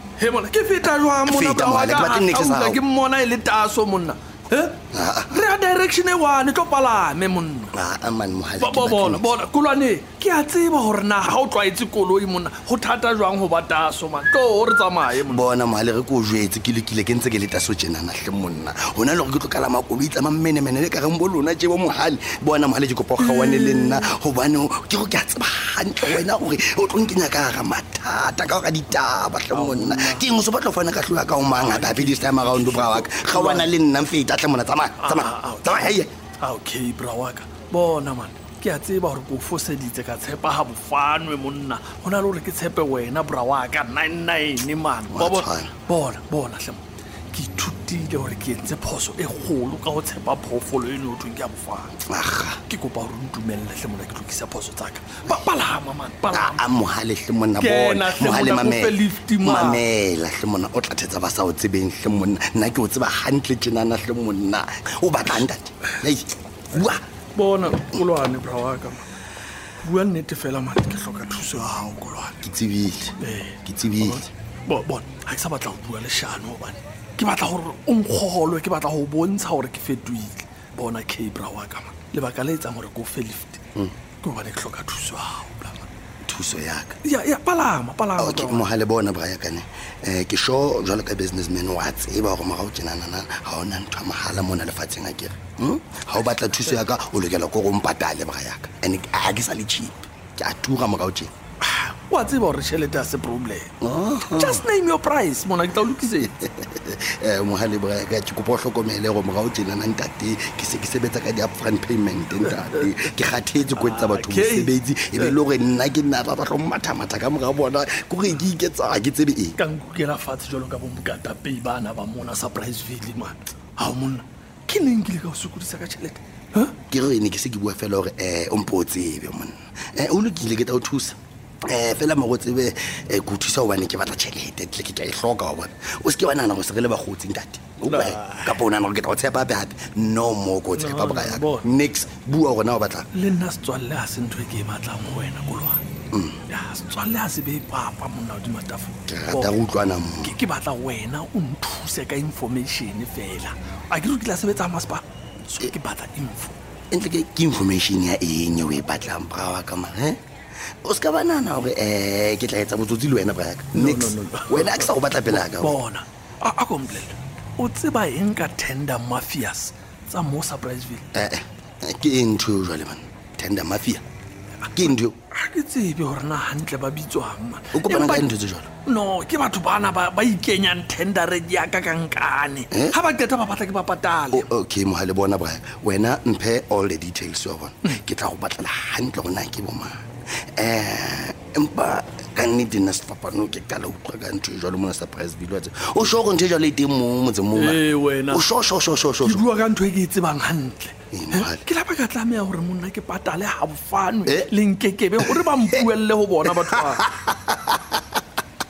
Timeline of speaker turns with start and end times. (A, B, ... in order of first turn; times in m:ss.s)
0:00.2-0:07.7 A
0:01.2-0:02.8 B
0:04.9-0:05.4 B
0:07.7-0:09.3 B
0:08.6-0:15.4 A
0:15.2-0:36.1 B
0:23.2-0:24.0 A
0:29.5-0:30.2 A
0:31.6-0:33.7 A
0:35.0-0:52.0 A
0:45.1-0:45.7 B
0:52.1-0:52.6 B
0:52.7-0:56.6 A
0:56.3-1:07.0 B
0:57.6-0:59.8 A
1:07.3-1:09.0 A
1:09.8-1:12.4 A
1:12.4-1:14.2 B
1:13.2-1:23.6 A
1:24.2-1:25.9 A
1:26.2-1:27.0 B
1:27.0-1:28.6 A
1:28.2-1:41.3 B
1:41.6-1:43.7 A
1:43.8-1:44.6 B
1:44.3-1:46.3 A
1:46.4-1:59.6 B
1:52.4-1:52.8 A
1:53.8-1:55.4 A
1:59.6-2:06.8 A
2:06.9-2:23.1 B
2:17.8-2:18.6 A
2:20.7-2:21.7 A
2:23.1-2:25.8 A
2:26.1-2:26.4 B
2:26.5-2:29.6 A
2:29.1-2:30.4 B
2:30.2-2:36.6 A
2:36.9-2:40.2 B
2:40.8-2:45.8 B
2:43.7-2:51.0 A
2:51.1-2:54.0 B
2:54.6-3:04.5 A
2:54.7-2:55.2 B
2:57.7-2:58.7 B
3:02.7-3:03.0 B
3:04.3-3:10.0 B
3:10.6-3:19.5 B
3:17.5-3:18.5 A
3:19.2-3:27.0 A
3:21.1-3:21.6 B
3:24.2-3:24.5 B
3:25.2-3:25.8 B
3:26.5-3:28.2 B